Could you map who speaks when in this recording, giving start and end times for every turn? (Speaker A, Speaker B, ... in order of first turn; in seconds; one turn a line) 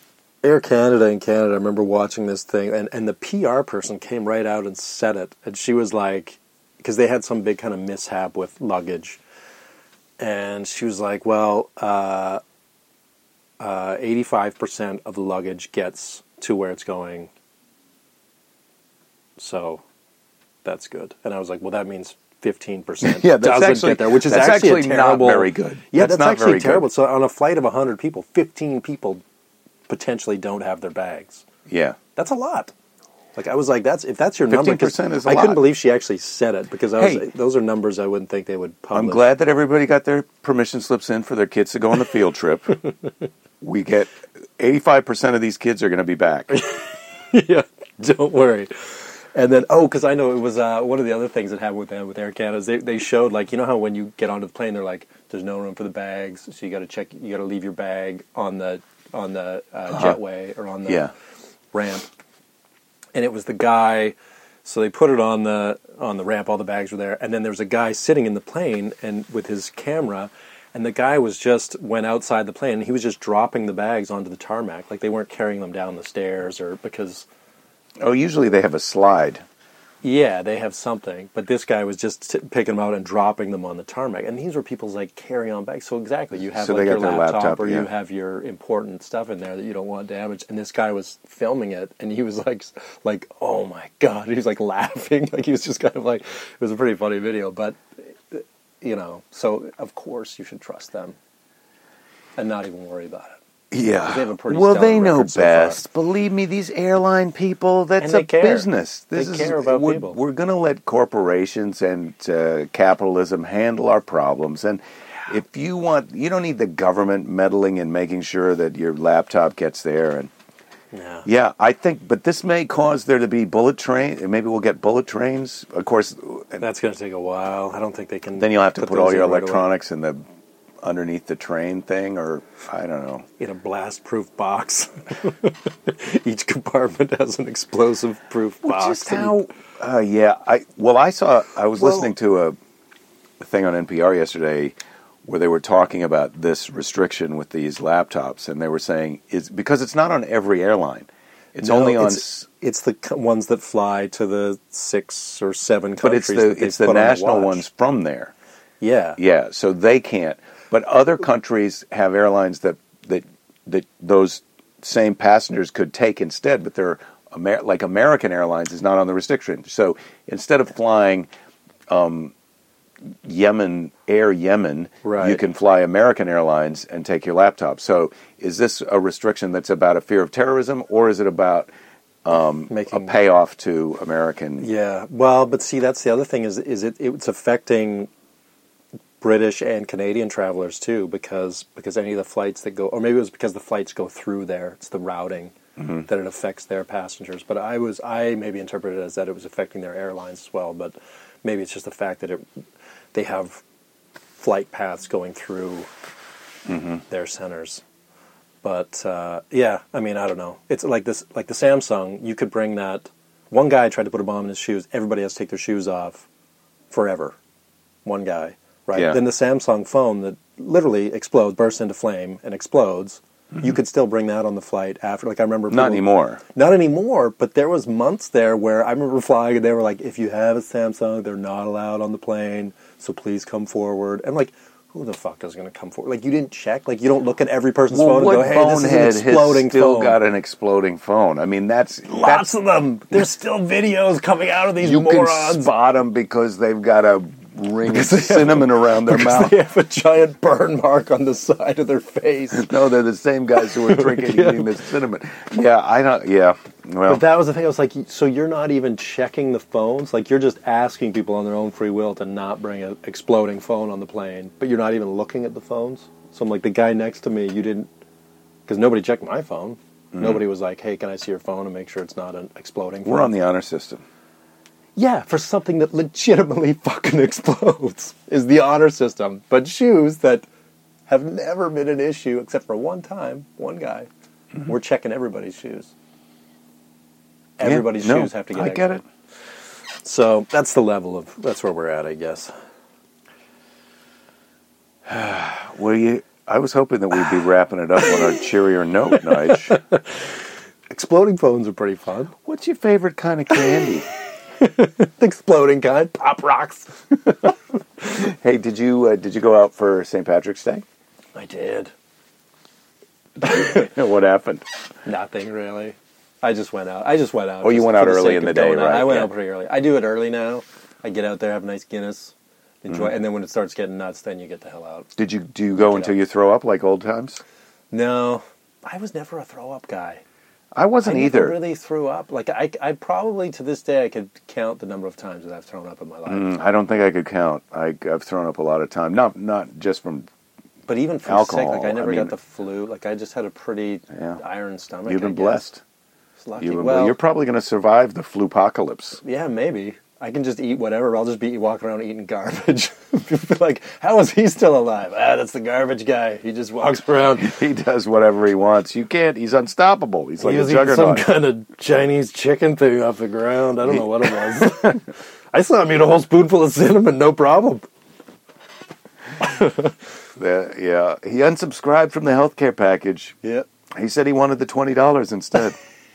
Speaker A: 0.4-9.2
Speaker A: 10.2-12.4
Speaker A: 13.6-17.3
Speaker A: 19.4-19.8
Speaker A: 20.6-29.2
Speaker B: 23.0-26.9
Speaker A: 29.9-31.4
Speaker B: 31.7-32.0
Speaker A: 32.1-32.7
Speaker A: 33.4-39.3
Speaker B: 34.5-35.6
Speaker B: 37.0-37.3
Speaker B: 38.9-42.8
Speaker B: 43.6-46.5
Speaker A: 46.5-61.1
Speaker B: 59.9-60.2
Speaker B: 60.9-61.1
Speaker A: 61.7-62.1
Speaker A: 63.1-77.3
Speaker B: 78.0-79.4
Speaker A: 80.0-101.2
Speaker B: 86.5-87.9
Speaker A: 102.4-103.4
Speaker B: 103.7-120.3
Speaker A: 104.0-105.8
Speaker A: 108.0-110.2
Speaker A: 120.9-121.2
Speaker B: 121.2-126.6
Speaker A: 126.6-129.7
Speaker B: 128.4-130.2
Speaker B: 130.8-133.2
Speaker A: 133.4-139.4
Speaker B: 138.6-142.6
Speaker B: 143.4-152.4
Speaker A: 151.6-157.6
Speaker B: 156.0-158.3
Speaker A: 158.8-159.2
Speaker B: 159.2-171.3
Speaker B: 171.9-172.3
Speaker B: 173.1-181.7
Speaker A: 175.0-175.4
Speaker B: 182.2-184.7
Speaker A: 182.7-183.2
Speaker A: 184.6-188.1
Speaker A: 189.2-202.4
Speaker B: 195.8-196.1
Speaker A: 203.1-203.6
Speaker A: 204.4-205.9
Speaker B: 206.7-207.0
Speaker A: 207.1-207.8
Speaker A: 208.6-216.2
Speaker A: 216.9-217.4
Speaker A: 218.1-240.2
Speaker B: 218.9-219.2
Speaker B: 225.7-226.4
Speaker B: 237.9-242.5
Speaker A: 242.1-245.7
Speaker B: 244.8-249.6
Speaker A: 247.9-252.7
Speaker B: 252.5-257.2
Speaker A: 253.6-254.7
Speaker A: 257.1-267.9
Speaker A: 268.7-273.3
Speaker B: 270.1-270.4
Speaker B: 273.1-274.0
Speaker A: 274.9-280.5
Speaker A: 281.1-284.1
Speaker A: 284.6-285.9
Speaker A: 287.6-289.0
Speaker B: 287.6-289.0
Speaker A: 290.0-292.5
Speaker B: 295.1-299.8
Speaker A: 299.3-300.2
Speaker A: 300.9-302.3
Speaker B: 302.4-304.1
Speaker A: 303.5-303.8
Speaker A: 304.6-307.0
Speaker B: 308.1-310.8
Speaker A: 311.3-311.9
Speaker B: 313.4-314.6
Speaker A: 313.4-313.8
Speaker A: 315.1-325.1
Speaker B: 317.6-319.3
Speaker B: 325.2-327.4
Speaker A: 325.8-326.1
Speaker A: 327.9-330.2
Speaker B: 330.7-331.6
Speaker A: 331.0-336.5
Speaker B: 336.2-340.3
Speaker A: 340.9-345.7
Speaker B: 341.2-342.3
Speaker B: 344.1-344.4
Speaker B: 345.1-345.8
Speaker A: 346.4-347.2
Speaker B: 346.6-349.2
Speaker A: 349.2-357.6
Speaker B: 357.4-361.2
Speaker A: 360.4-367.9
Speaker B: 363.8-365.0
Speaker A: 369.4-369.9
Speaker B: 370.4-373.4
Speaker B: 373.9-375.8